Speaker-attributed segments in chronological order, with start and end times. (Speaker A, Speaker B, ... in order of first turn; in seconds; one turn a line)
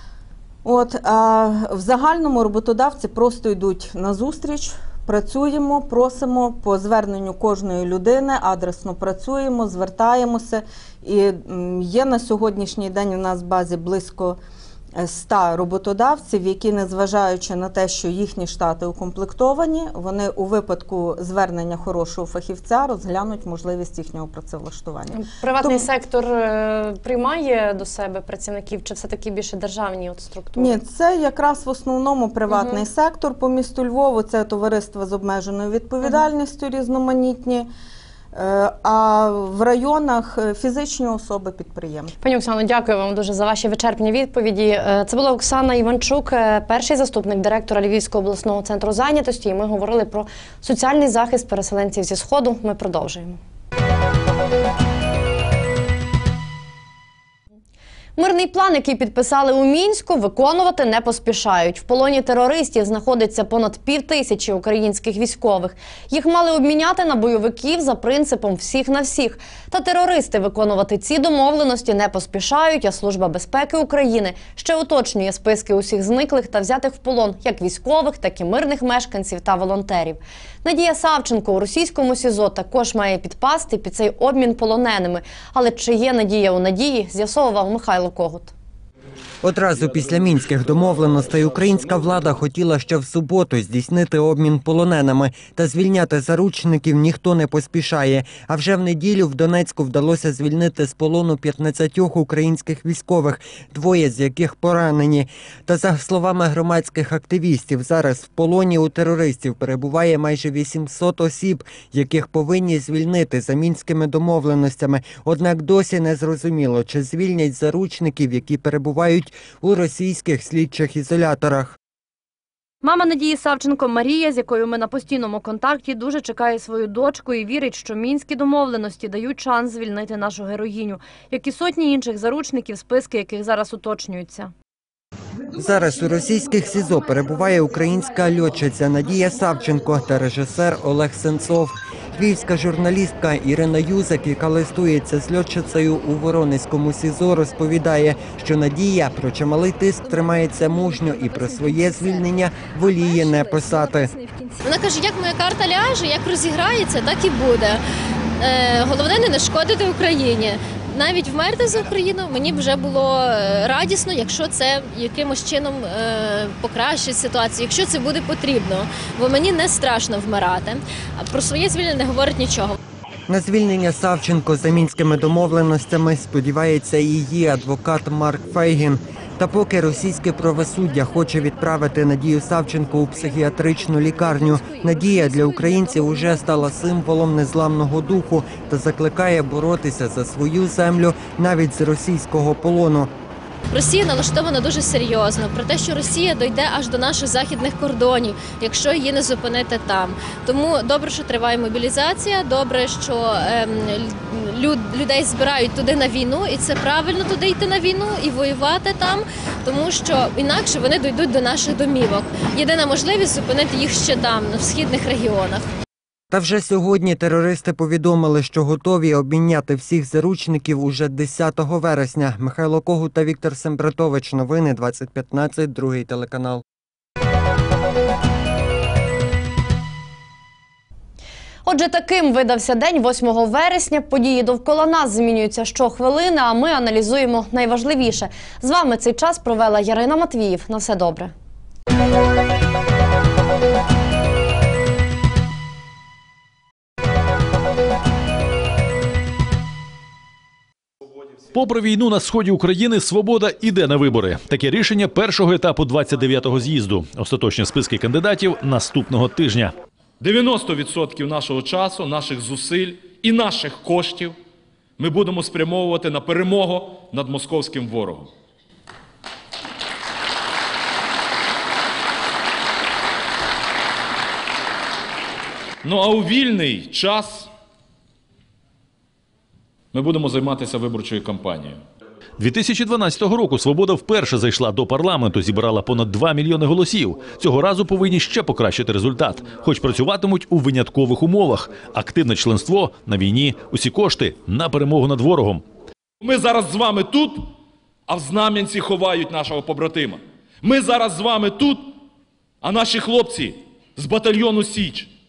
Speaker A: 0.6-14.4
Speaker A: 15.0-25.9
Speaker B: 25.1-30.8
Speaker A: 30.6-37.7
Speaker B: 32.5-32.9
Speaker A: 38.3-42.1
Speaker B: 42.2-53.4
Speaker B: 58.2-88.5
Speaker C: 89.4-121.8
Speaker B: 122.8-134.5
Speaker C: 135.5-154.1
Speaker D: 154.6-157.8
Speaker D: 158.4-172.8
Speaker C: 173.3-193.1
Speaker D: 193.7-215.7
Speaker C: 216.3-226.6
Speaker B: 231.7-241.3
Speaker E: 251.5-259.7
Speaker F: 260.2-264.4
Speaker F: 265.0-268.3
Speaker F: 275.8-277.5
Speaker F: 279.9-281.8
Speaker E: 282.4-295.6
Speaker F: 296.2-297.5
Speaker F: 298.1-301.9
Speaker F: 302.6-305.1